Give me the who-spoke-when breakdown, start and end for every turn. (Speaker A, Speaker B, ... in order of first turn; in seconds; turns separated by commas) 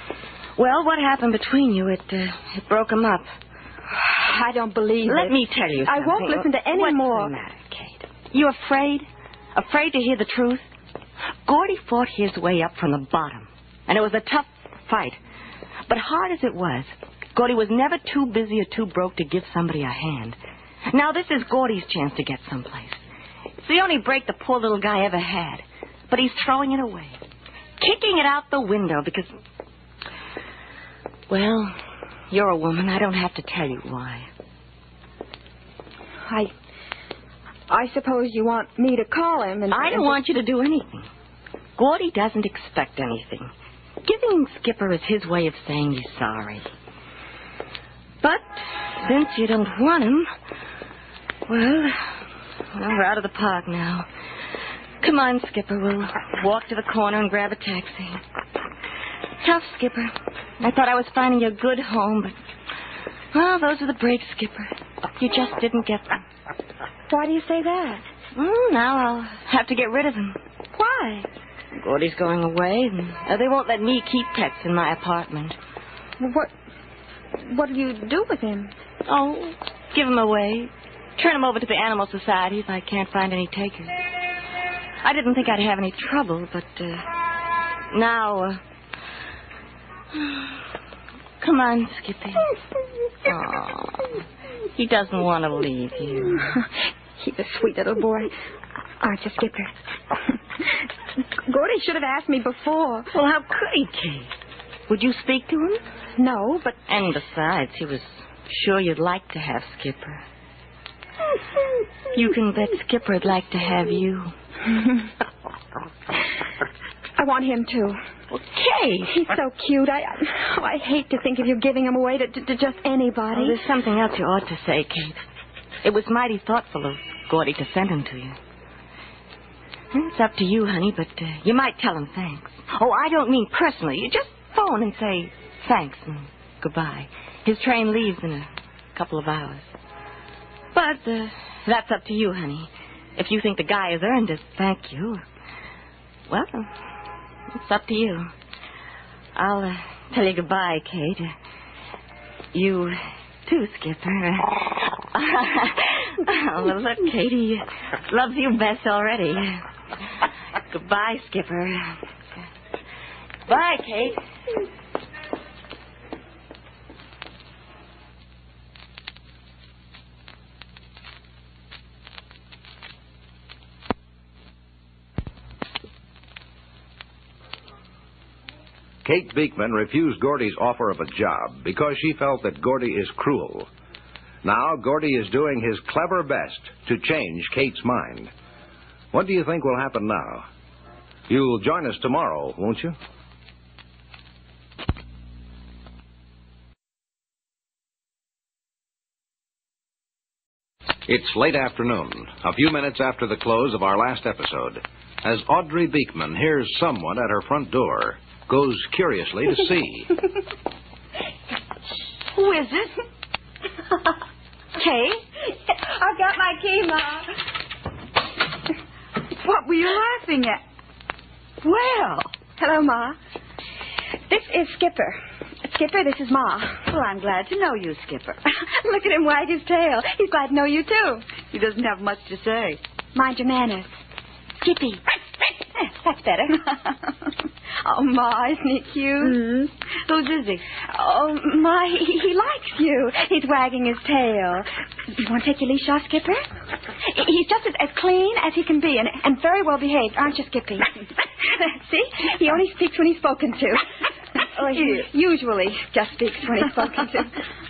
Speaker A: 0.6-3.3, Speaker B: 3.9-7.3, Speaker A: 5.1-10.7, Speaker A: 11.5-15.2, Speaker A: 15.9-20.4, Speaker A: 20.9-23.0, Speaker A: 23.6-27.2, Speaker A: 27.8-29.3, Speaker A: 31.3-31.8, Speaker A: 32.3-34.3, Speaker B: 36.3-36.5, Speaker B: 37.7-40.2, Speaker A: 39.7-41.1, Speaker A: 41.8-43.5, Speaker A: 44.0-46.6, Speaker A: 48.2-50.3, Speaker A: 51.5-52.2, Speaker A: 52.7-54.1, Speaker A: 55.0-58.2, Speaker A: 59.4-62.3, Speaker A: 63.3-66.2, Speaker B: 67.1-68.0, Speaker A: 68.3-70.4, Speaker B: 70.7-71.3, Speaker A: 71.8-75.6, Speaker B: 76.2-76.5, Speaker B: 77.4-78.7, Speaker A: 79.1-84.0, Speaker A: 85.0-87.1, Speaker A: 87.9-88.6, Speaker A: 90.1-90.5, Speaker A: 91.4-92.5, Speaker A: 93.2-94.2, Speaker A: 94.8-96.5, Speaker B: 97.2-98.3, Speaker B: 99.0-99.7, Speaker B: 101.5-103.1, Speaker A: 103.1-104.3, Speaker A: 104.9-105.8, Speaker B: 106.2-106.8, Speaker A: 106.9-110.2, Speaker A: 112.1-114.3, Speaker B: 117.2-118.0, Speaker A: 118.3-119.2, Speaker B: 119.1-123.6, Speaker A: 123.3-125.2, Speaker A: 125.8-128.4, Speaker A: 129.9-139.7, Speaker A: 140.7-145.2, Speaker A: 146.3-146.8, Speaker A: 147.5-148.3, Speaker A: 149.3-151.3, Speaker A: 152.5-159.6, Speaker A: 160.7-162.0, Speaker A: 163.5-164.2, Speaker C: 179.0-183.7, Speaker C: 184.4-188.3, Speaker C: 189.1-190.5, Speaker C: 191.3-192.9, Speaker C: 201.1-210.1, Speaker D: 212.3-212.9, Speaker B: 214.8-215.2, Speaker B: 215.7-217.3, Speaker D: 219.4-220.6, Speaker D: 221.6-222.4, Speaker B: 222.5-223.2, Speaker B: 224.3-226.8, Speaker D: 226.8-228.4, Speaker B: 228.7-231.4, Speaker D: 231.4-232.8, Speaker B: 233.2-234.0, Speaker B: 234.6-235.0, Speaker B: 235.8-236.6, Speaker B: 237.8-239.5, Speaker D: 239.2-240.6, Speaker B: 240.7-246.4, Speaker B: 247.1-250.9, Speaker B: 251.5-253.8, Speaker B: 254.5-257.4, Speaker D: 254.6-255.1